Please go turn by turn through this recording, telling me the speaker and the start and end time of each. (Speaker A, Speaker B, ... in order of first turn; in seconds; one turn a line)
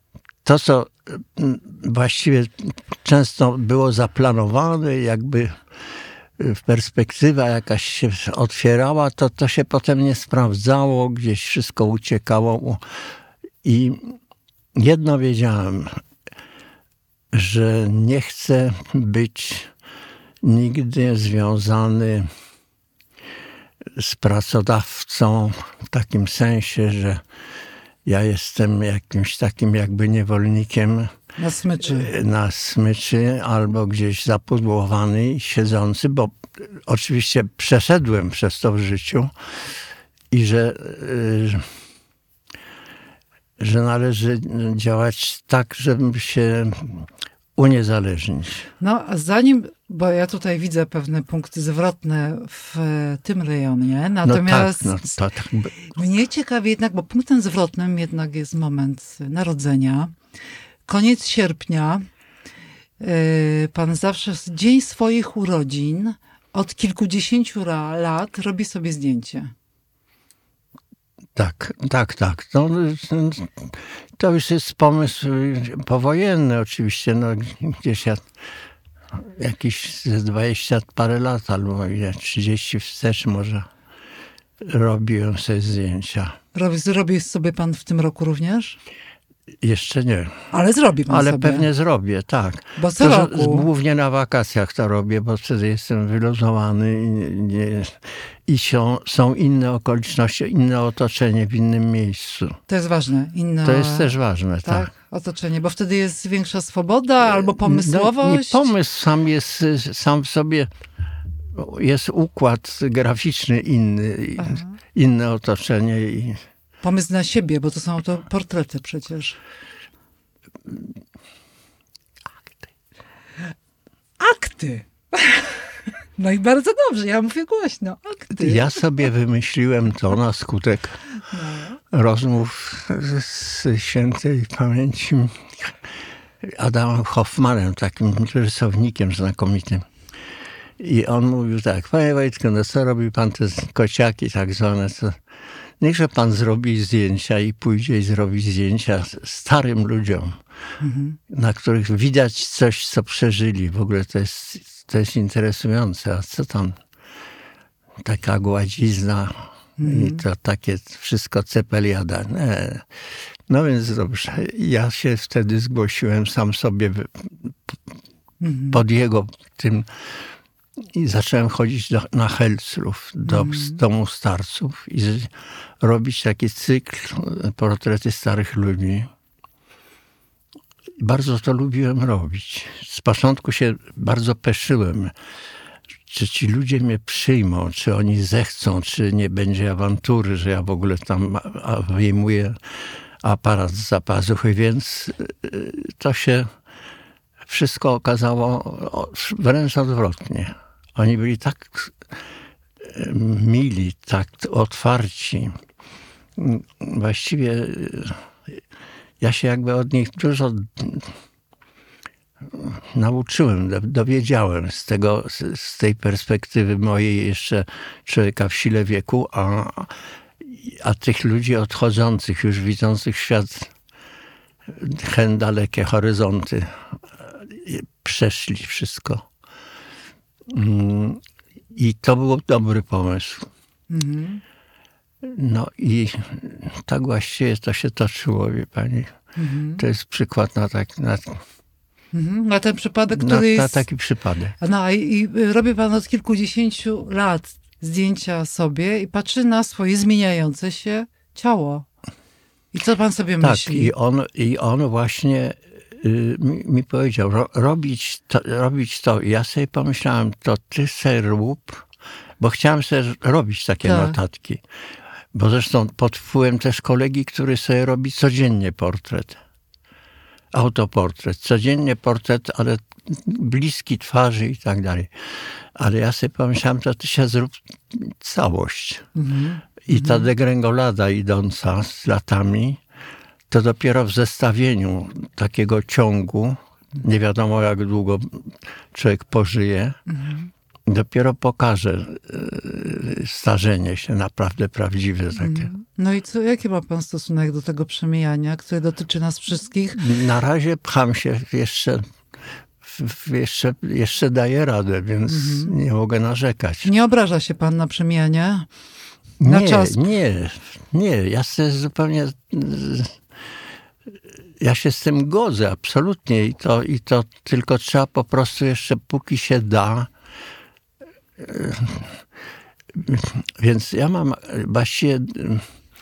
Speaker A: 0.5-5.6
Speaker A: 6.4-12.8
Speaker A: 13.6-14.2
Speaker A: 14.8-16.0
Speaker A: 17.3-19.7
Speaker A: 20.4-22.3
Speaker A: 23.9-27.2
Speaker A: 28.1-31.1
Speaker B: 31.4-32.1
Speaker A: 31.8-39.3
Speaker A: 40.3-41.7
Speaker A: 43.6-48.7
Speaker B: 48.8-55.1
Speaker A: 54.2-55.9
Speaker B: 55.9-60.2
Speaker B: 60.9-62.0
Speaker B: 63.0-69.5
Speaker A: 71.4-78.3
Speaker A: 79.2-83.7
Speaker A: 84.6-86.4
Speaker B: 86.5-88.8
Speaker A: 89.6-90.5
Speaker B: 90.5-91.7
Speaker A: 91.1-102.6
Speaker B: 92.8-93.7
Speaker B: 102.7-104.1
Speaker A: 103.6-104.9
Speaker B: 104.6-108.7
Speaker A: 107.3-110.7
Speaker A: 111.5-116.4
Speaker B: 114.4-114.7
Speaker B: 116.8-119.4
Speaker B: 124.2-125.5
Speaker B: 126.2-128.8
Speaker A: 128.4-131.0
Speaker B: 131.3-131.8
Speaker A: 131.9-135.8
Speaker A: 136.4-139.9
Speaker A: 140.8-145.2
Speaker A: 145.8-150.4
Speaker B: 150.8-151.2
Speaker A: 151.3-156.8
Speaker A: 158.0-162.9
Speaker B: 159.8-160.2
Speaker A: 163.5-167.8
Speaker B: 168.4-168.8
Speaker A: 168.7-169.9
Speaker A: 170.9-179.1
Speaker B: 173.2-173.8
Speaker A: 181.0-185.1
Speaker A: 186.1-192.6
Speaker A: 193.2-196.5
Speaker A: 197.4-202.0
Speaker A: 202.8-205.6
Speaker A: 206.4-208.6
Speaker A: 209.2-211.1
Speaker A: 212.5-223.7
Speaker A: 224.7-229.2
Speaker A: 230.5-231.2
Speaker A: 231.7-233.5
Speaker B: 233.9-234.4
Speaker A: 235.2-239.1
Speaker B: 239.4-239.8
Speaker A: 239.8-241.4
Speaker B: 242.1-243.9
Speaker A: 243.1-244.6
Speaker B: 244.6-251.9
Speaker B: 252.7-253.9
Speaker A: 253.4-261.9
Speaker A: 262.4-264.6
Speaker B: 263.8-264.2
Speaker A: 265.3-269.4
Speaker A: 270.5-275.1
Speaker A: 275.8-279.1
Speaker B: 279.1-280.3
Speaker A: 279.9-282.8
Speaker A: 283.5-290.0
Speaker B: 290.1-290.5
Speaker A: 290.9-295.7
Speaker B: 295.4-300.0
Speaker A: 299.9-302.0
Speaker A: 302.8-306.9
Speaker B: 305.3-305.8
Speaker B: 306.8-308.7
Speaker A: 309.4-313.2
Speaker B: 309.4-310.0
Speaker A: 314.6-320.1
Speaker A: 321.4-322.2
Speaker A: 322.9-325.6